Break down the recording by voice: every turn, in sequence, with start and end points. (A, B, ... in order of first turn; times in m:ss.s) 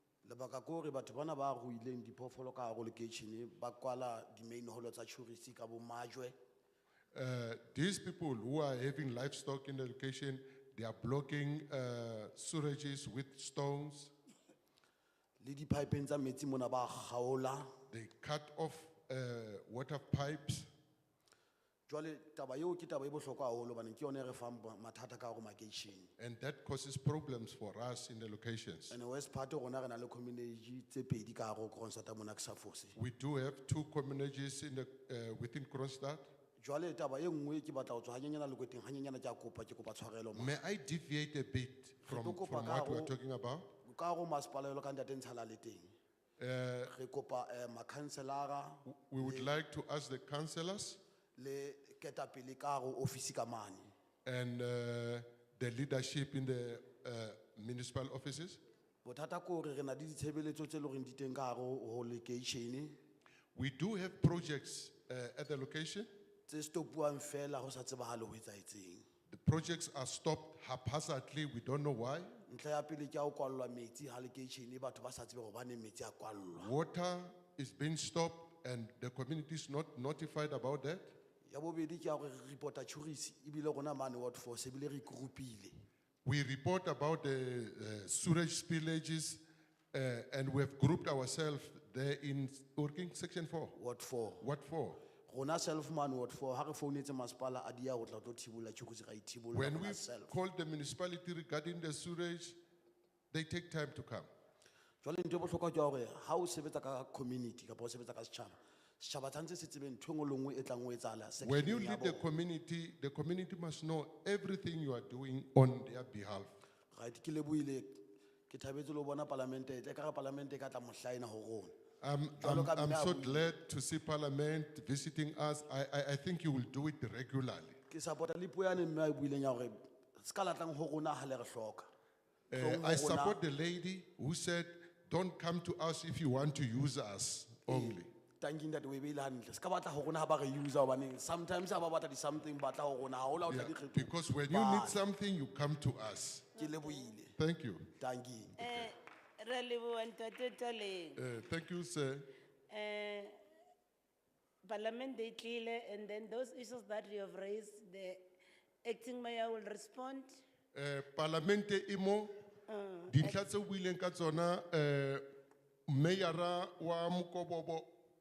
0:00.2-0:06.3 A
0:07.1-0:14.1 B
0:15.4-0:17.7 A
0:17.9-0:20.7 B
0:21.9-0:26.1 A
0:26.2-0:28.9 B
0:28.9-0:33.0 A
0:33.0-0:36.3 B
0:36.6-0:40.6 A
0:40.3-0:43.7 B
0:42.0-0:43.1 A
0:43.8-0:45.9 A
0:46.4-0:46.9 B
0:46.9-0:49.5 A
0:48.8-0:51.0 B
0:51.4-0:53.9 A
0:54.2-0:58.6 B
0:59.0-1:02.9 A
1:03.5-1:06.1 B
1:06.5-1:09.0 A
1:09.3-1:12.3 B
1:12.5-1:16.7 A
1:16.6-1:21.1 B
1:21.4-1:25.7 A
1:26.2-1:33.7 B
1:33.7-1:34.4 A
1:34.4-1:35.0 B
1:35.3-1:40.4 A
1:39.5-1:42.6 B
1:43.3-1:44.3 B
1:45.0-1:52.2 A
1:51.4-1:56.5 B
1:56.9-1:58.0 A
1:58.5-2:01.7 A
2:02.0-2:07.8 B
2:02.4-2:03.4 A
2:07.9-2:11.9 A
2:12.5-2:18.1 B
2:12.6-2:13.4 A
2:17.7-2:25.0 A
2:23.5-2:26.5 B
2:26.6-2:27.3 A
2:26.6-2:27.1 C
2:27.4-2:27.9 B
2:28.0-2:28.9 A
2:28.6-2:31.2 C
2:31.2-2:32.3 B
2:32.7-2:33.4 C
2:34.6-2:38.2 C
2:38.8-2:40.4 C
2:40.7-2:42.3 B
2:42.7-2:43.4 C
2:43.1-2:45.2 B
2:45.9-2:47.9 B